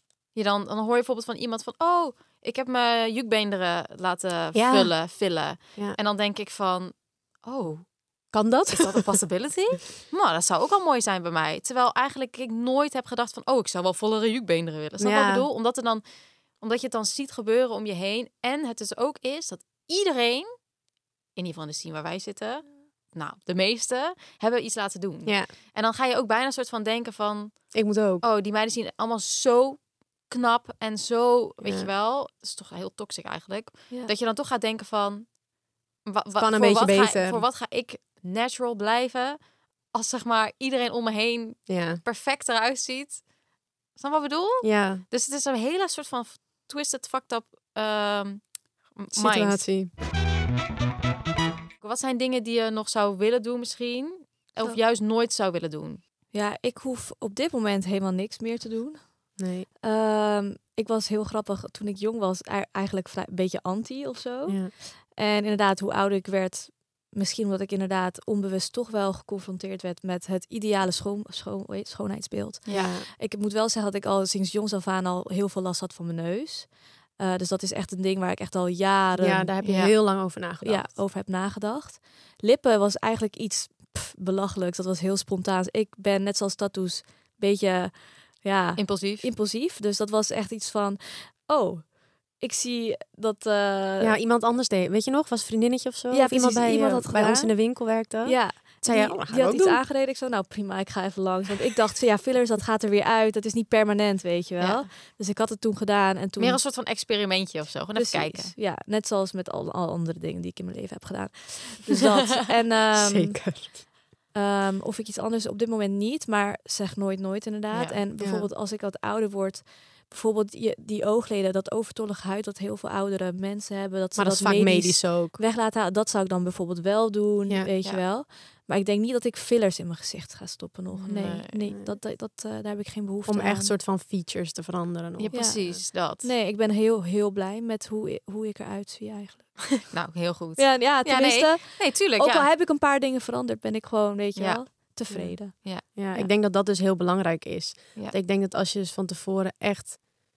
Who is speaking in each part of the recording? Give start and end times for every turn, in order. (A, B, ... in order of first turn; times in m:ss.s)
0:00.3-0:07.8 A
0:04.5-0:04.9 B
0:08.3-0:09.1 B
0:08.7-0:16.0 A
0:15.0-0:15.4 B
0:16.6-0:20.5 A
0:21.4-0:35.4 A
0:25.2-0:25.5 B
0:27.7-0:28.2 B
0:31.6-0:31.9 B
0:36.0-0:39.4 A
0:36.4-0:37.4 B
0:39.9-0:43.2 A
0:41.7-0:42.0 B
0:43.9-0:49.7 A
0:44.6-0:45.0 B
0:49.1-0:49.9 B
0:51.8-0:56.0 A
0:56.3-1:19.5 C
0:59.4-0:59.7 B
1:04.5-1:04.7 B
1:12.6-1:12.9 A
1:12.7-1:13.1 B
1:19.2-1:21.0 B
1:19.6-1:19.9 A
1:20.6-1:34.2 C
1:28.8-1:29.3 A
1:34.0-1:39.8 B
1:36.1-1:46.6 C
1:44.6-1:44.8 A
1:46.4-1:48.5 A
1:47.9-1:53.4 C
1:52.9-1:53.8 B
1:54.3-2:13.8 C
1:57.7-1:58.0 A
1:58.2-1:58.5 B
2:04.1-2:05.4 B
2:10.9-2:11.6 A
2:11.2-2:11.9 B
2:13.3-2:15.7 B
2:15.2-2:16.3 A
2:15.3-2:19.9 C
2:19.8-2:22.5 A
2:20.6-2:26.3 C
2:24.4-2:24.7 A
2:25.1-2:30.0 B
2:25.6-2:25.8 A